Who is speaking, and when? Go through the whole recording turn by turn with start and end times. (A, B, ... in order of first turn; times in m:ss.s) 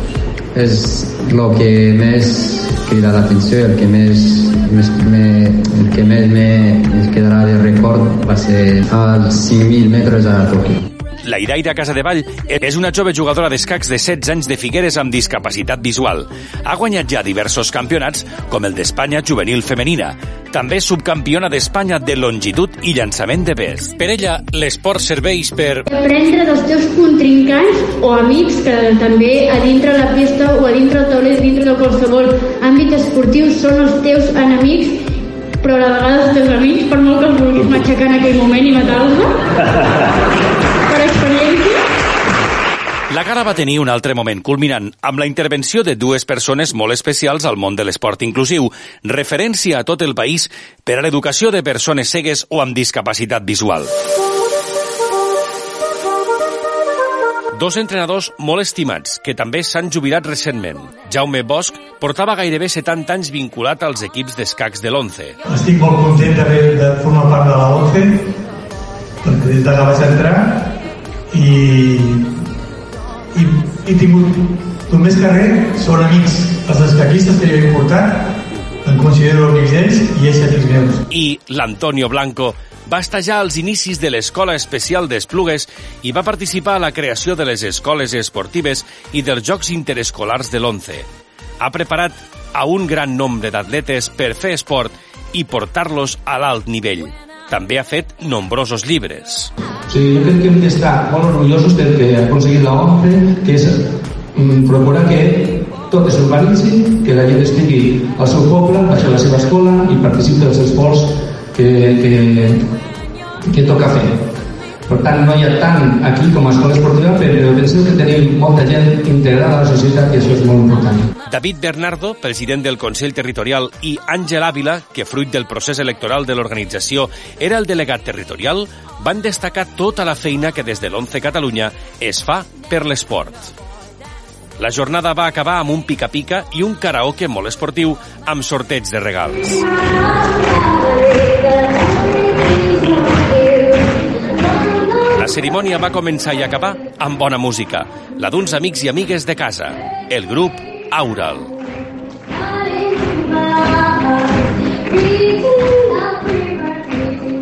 0:00.5-0:10.8 A
0:11.2-0:25.8 B
0:25.9-0:35.0 C
0:35.6-0:39.3 C
0:40.9-0:41.8 C
0:43.1-0:53.9 B
0:57.6-1:05.4 B
1:05.4-1:08.2 D
1:09.2-1:10.7 D
1:11.3-1:12.2 D
1:13.3-1:14.3 D
1:14.9-1:18.3 D
1:18.8-1:21.0 D
1:21.1-1:31.1 B
1:31.6-1:39.5 B
1:39.9-1:52.6 E
1:53.5-1:54.2 E
1:54.9-2:01.1 E
2:01.3-2:13.5 B
2:14.6-2:19.7 B
2:25.0-2:31.5 B